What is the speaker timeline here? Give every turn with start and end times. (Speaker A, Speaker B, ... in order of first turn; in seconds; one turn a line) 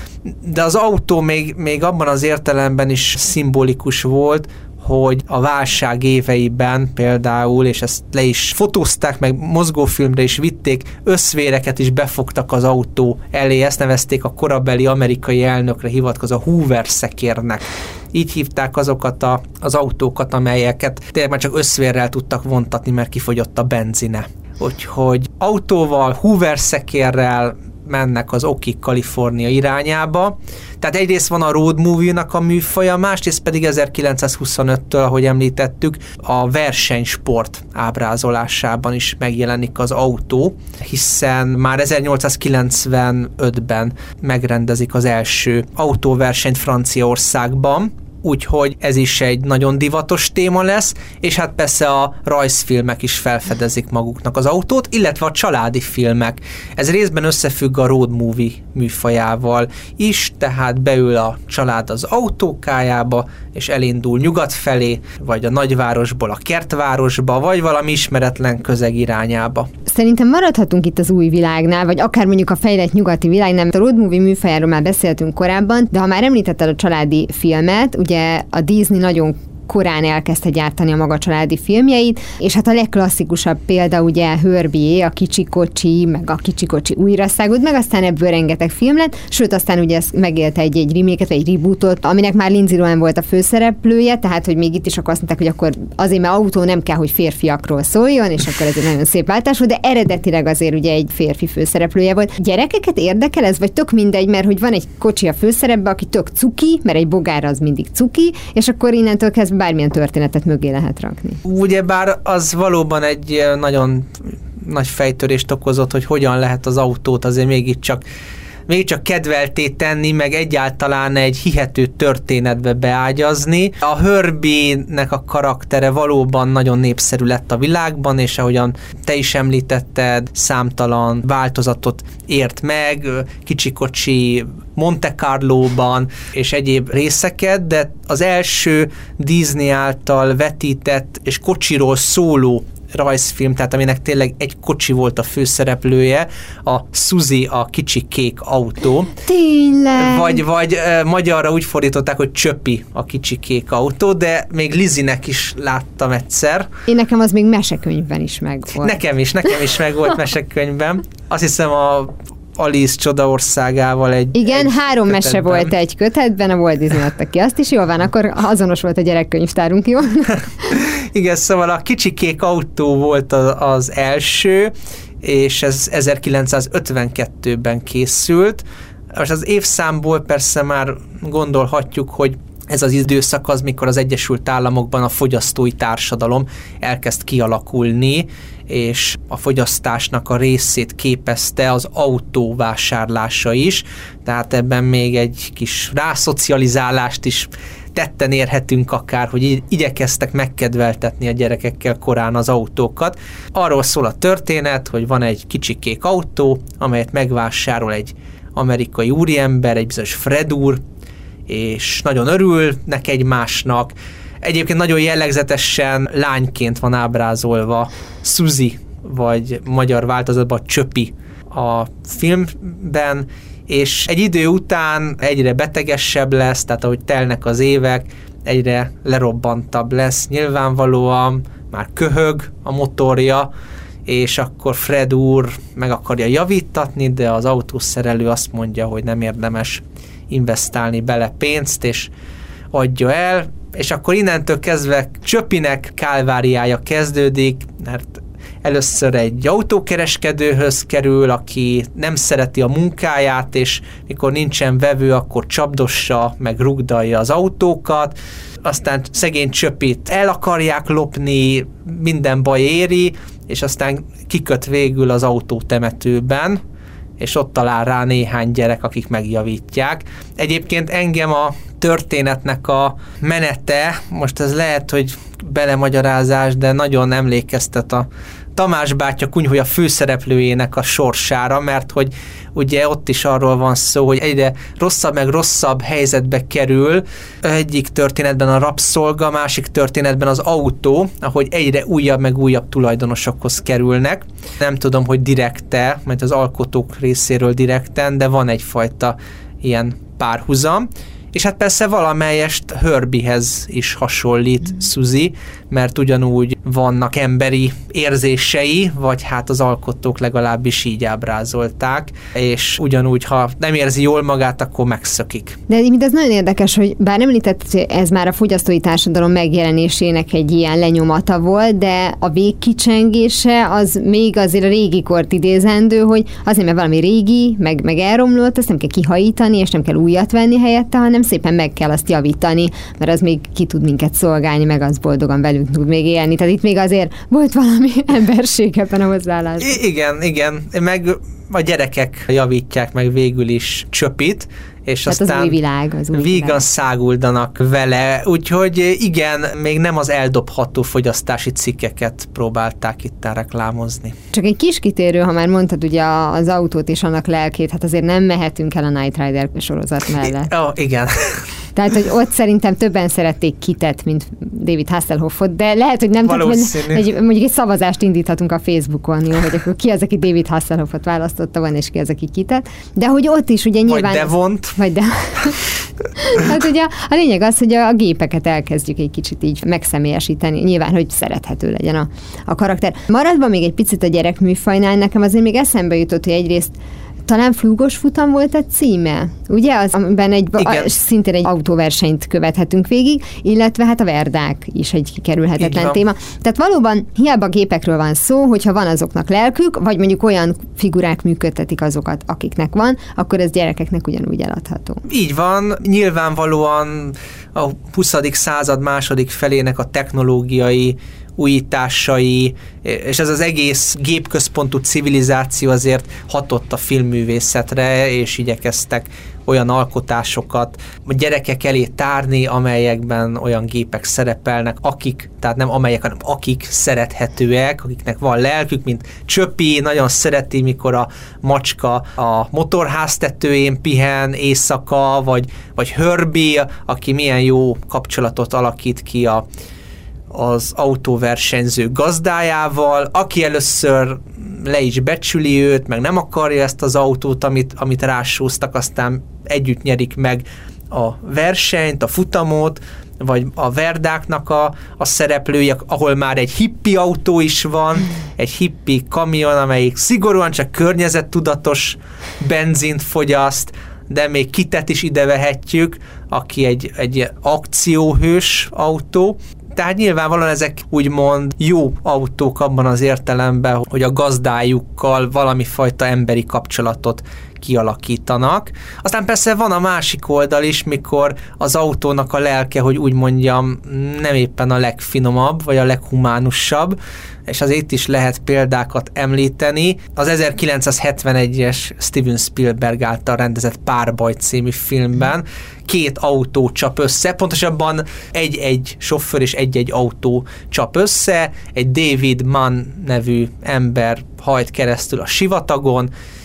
Speaker A: 0.3-69.7
Speaker B: 69.8-111.4
Speaker A: 111.4-118.0
Speaker A: 118.7-149.1
Speaker B: 149.2-150.4
Speaker A: 149.9-156.7
Speaker B: 156.9-159.0
Speaker A: 158.8-165.7
Speaker B: 164.3-170.7
Speaker A: 170.7-210.8
Speaker A: 211.5-233.5
Speaker A: 234.1-242.1
Speaker A: 242.7-266.6
Speaker A: 267.2-315.6
Speaker B: 315.7-339.8
Speaker A: 339.6-345.6
Speaker B: 345.1-346.6
Speaker A: 346.1-354.1
Speaker B: 354.3-360.5
Speaker A: 360.2-361.4
Speaker B: 361.7-375.6
Speaker A: 366.2-367.0
Speaker A: 373.9-374.8
Speaker B: 376.2-386.7
Speaker B: 387.3-405.0
Speaker A: 390.6-390.9
Speaker A: 395.6-396.0
Speaker A: 405.1-439.4
Speaker A: 440.3-506.1